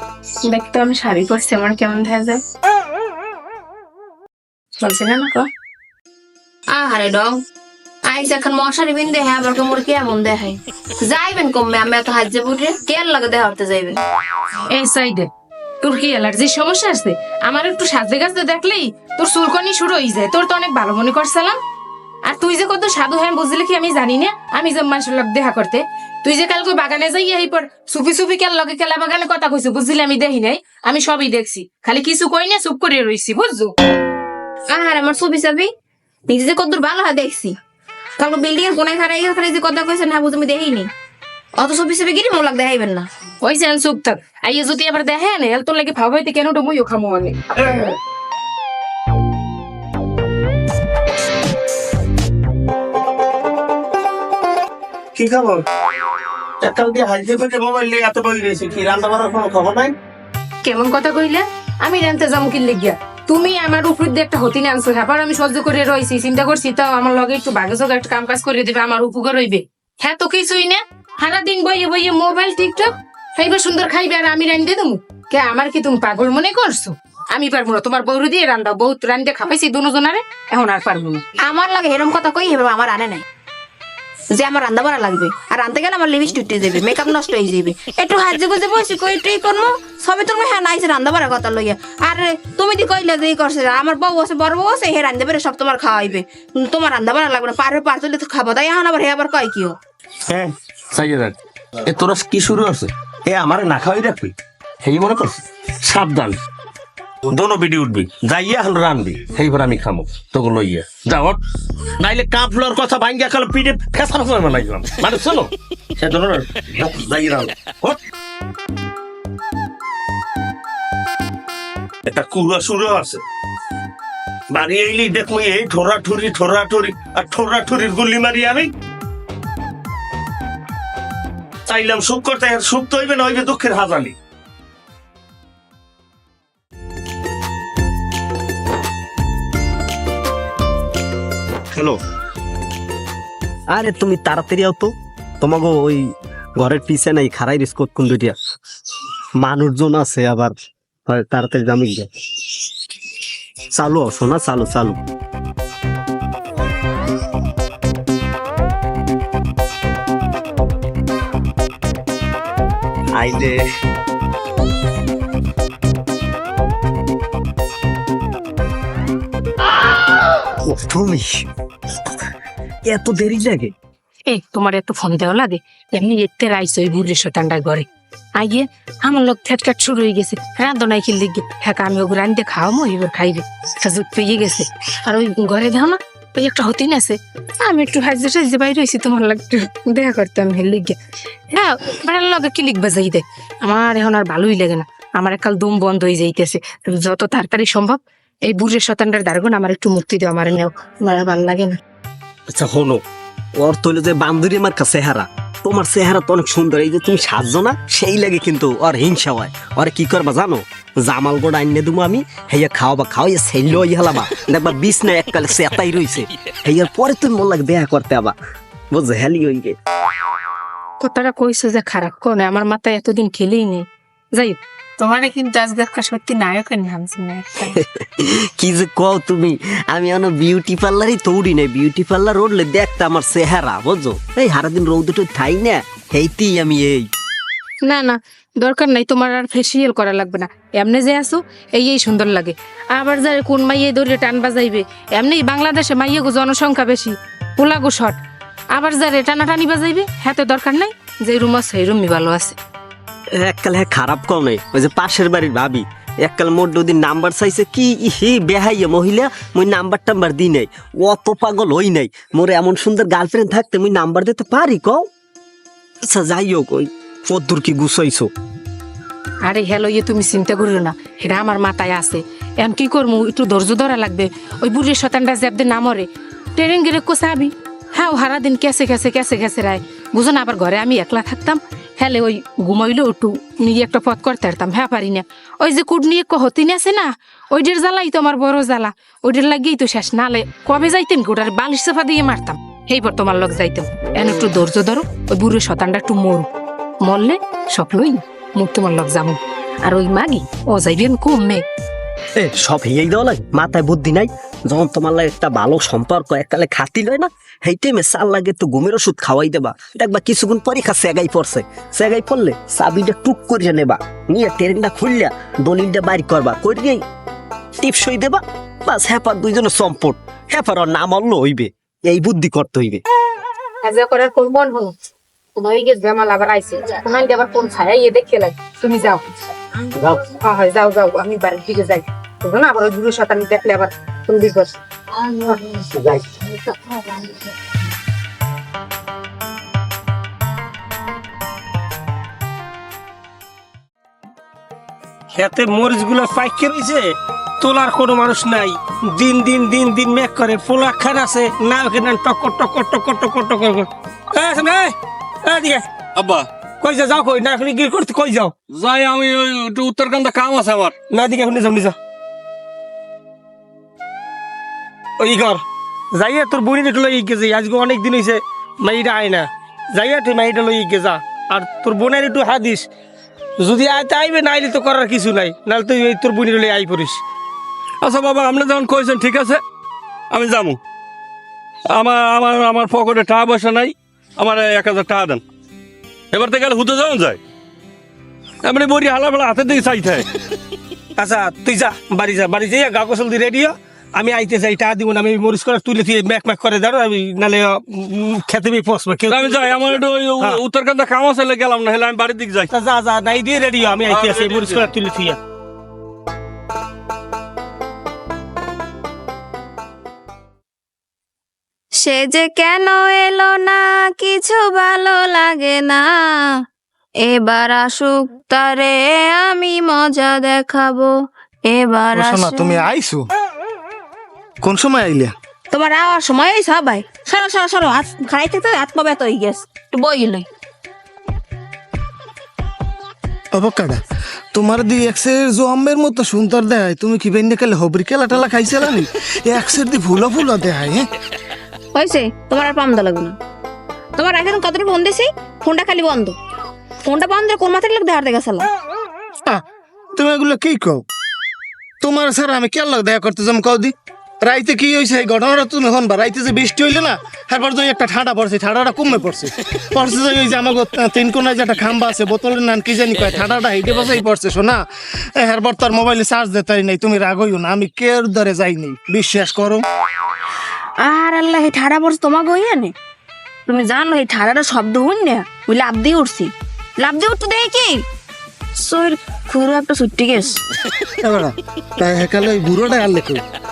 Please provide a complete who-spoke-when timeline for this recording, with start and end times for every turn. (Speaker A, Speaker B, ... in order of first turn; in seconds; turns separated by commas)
Speaker A: 0.4-2.4, Speaker A: 4.8-5.5, Speaker B: 6.7-7.4, Speaker B: 8.0-14.0, Speaker A: 14.7-15.3, Speaker A: 15.8-21.6, Speaker A: 22.2-33.7, Speaker B: 34.7-35.7, Speaker B: 36.3-37.5, Speaker B: 38.2-40.9, Speaker B: 41.5-43.1, Speaker A: 43.4-47.9, Speaker C: 55.1-55.6, Speaker C: 56.6-59.9, Speaker A: 60.6-81.2, Speaker B: 81.4-83.2, Speaker B: 84.3-99.8, Speaker C: 100.3-106.4, Speaker C: 107.2-111.4, Speaker C: 112.0-118.0, Speaker C: 122.0-123.2, Speaker C: 124.5-128.7, Speaker C: 131.7-134.2, Speaker D: 143.7-148.4, Speaker D: 149.3-150.6, Speaker D: 151.1-152.6, Speaker D: 153.7-155.0, Speaker D: 163.1-163.6, Speaker D: 170.6-171.3, Speaker D: 172.8-173.7, Speaker A: 174.3-191.0, Speaker A: 191.5-201.8, Speaker D: 202.5-203.0, Speaker D: 203.6-218.3, Speaker D: 218.9-219.8, Speaker A: 221.0-227.8, Speaker D: 227.8-237.1, Speaker A: 237.8-248.2, Speaker A: 248.7-252.6, Speaker D: 253.3-265.1, Speaker D: 266.1-268.3, Speaker A: 269.4-296.5, Speaker A: 297.0-301.6, Speaker D: 302.4-317.0, Speaker D: 317.8-323.0, Speaker A: 323.8-324.9, Speaker A: 325.5-329.2, Speaker A: 329.9-337.4, Speaker E: 345.3-347.0, Speaker E: 347.6-355.8, Speaker F: 356.1-356.5, Speaker E: 356.8-358.5, Speaker F: 358.7-360.9, Speaker E: 361.1-361.9, Speaker E: 365.2-365.6, Speaker E: 366.1-372.9, Speaker E: 373.6-377.2, Speaker F: 378.0-379.6, Speaker F: 380.3-380.8, Speaker F: 381.9-385.4, Speaker F: 386.3-387.4, Speaker F: 388.6-390.3, Speaker E: 391.2-400.6, Speaker F: 399.3-402.7, Speaker E: 402.7-405.4, Speaker F: 404.1-404.9, Speaker B: 412.0-416.1, Speaker B: 417.2-421.1, Speaker B: 421.6-422.8, Speaker G: 422.1-423.3, Speaker G: 424.6-425.3, Speaker B: 425.7-430.5, Speaker G: 433.5-434.0, Speaker G: 434.5-441.0, Speaker B: 441.9-443.4, Speaker B: 444.1-446.4, Speaker B: 447.0-448.7, Speaker G: 450.1-451.0, Speaker G: 452.0-464.8, Speaker G: 465.4-469.8, Speaker B: 471.0-472.9, Speaker B: 473.7-478.0, Speaker B: 478.8-480.6, Speaker G: 481.2-483.4